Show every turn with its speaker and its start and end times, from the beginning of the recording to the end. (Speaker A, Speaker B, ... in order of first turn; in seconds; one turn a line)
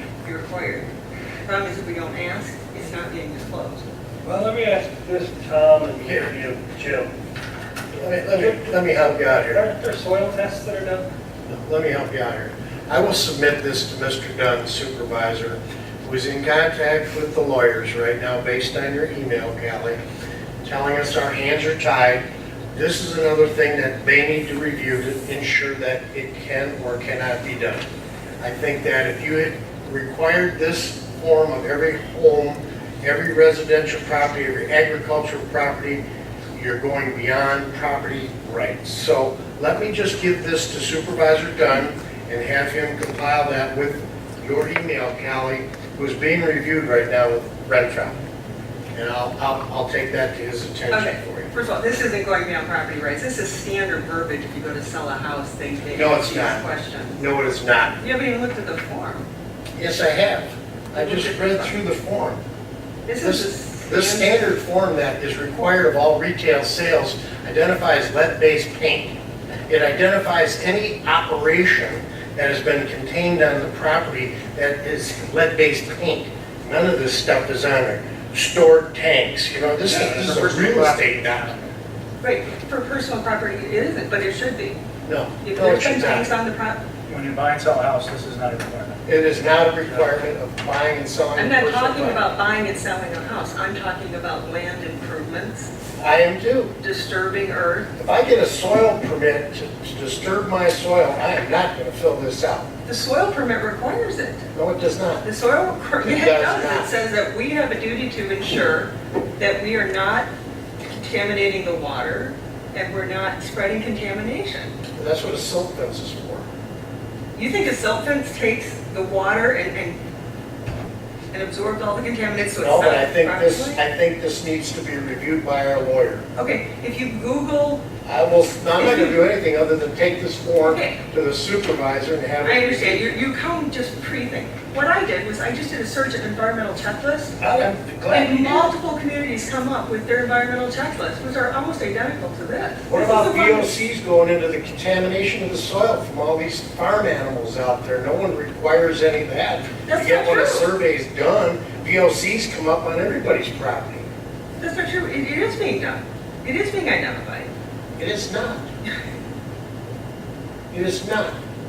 Speaker A: 0.2-0.9
Speaker A: 1.4-3.9
Speaker B: 4.2-7.1
Speaker C: 8.0-9.6
Speaker B: 8.3-11.1
Speaker C: 11.5-20.0
Speaker C: 20.6-27.8
Speaker C: 28.4-36.0
Speaker C: 36.5-48.2
Speaker C: 48.9-51.5
Speaker A: 50.9-57.2
Speaker C: 55.9-56.6
Speaker C: 57.2-57.9
Speaker A: 58.0-59.2
Speaker C: 59.8-62.4
Speaker A: 60.9-61.7
Speaker A: 63.0-64.5
Speaker C: 63.2-69.2
Speaker C: 69.7-81.5
Speaker D: 79.8-81.7
Speaker A: 82.2-84.8
Speaker C: 85.0-86.3
Speaker A: 85.4-86.8
Speaker D: 87.1-89.0
Speaker C: 89.0-92.2
Speaker A: 91.3-95.7
Speaker C: 96.0-96.7
Speaker A: 96.8-97.9
Speaker C: 98.0-102.7
Speaker A: 102.8-104.4
Speaker C: 104.5-105.2
Speaker A: 105.2-110.3
Speaker C: 106.0-106.9
Speaker A: 110.9-114.7
Speaker C: 115.0-116.5
Speaker A: 117.3-120.0
Speaker A: 121.3-123.8
Speaker C: 122.6-126.2
Speaker A: 126.3-127.8
Speaker C: 128.0-133.2
Speaker A: 128.8-129.2
Speaker A: 130.6-131.0
Speaker A: 132.4-143.7
Speaker C: 137.4-138.7
Speaker C: 142.9-154.1
Speaker A: 149.8-150.7
Speaker A: 154.6-157.5
Speaker C: 158.0-158.6
Speaker C: 160.7-161.3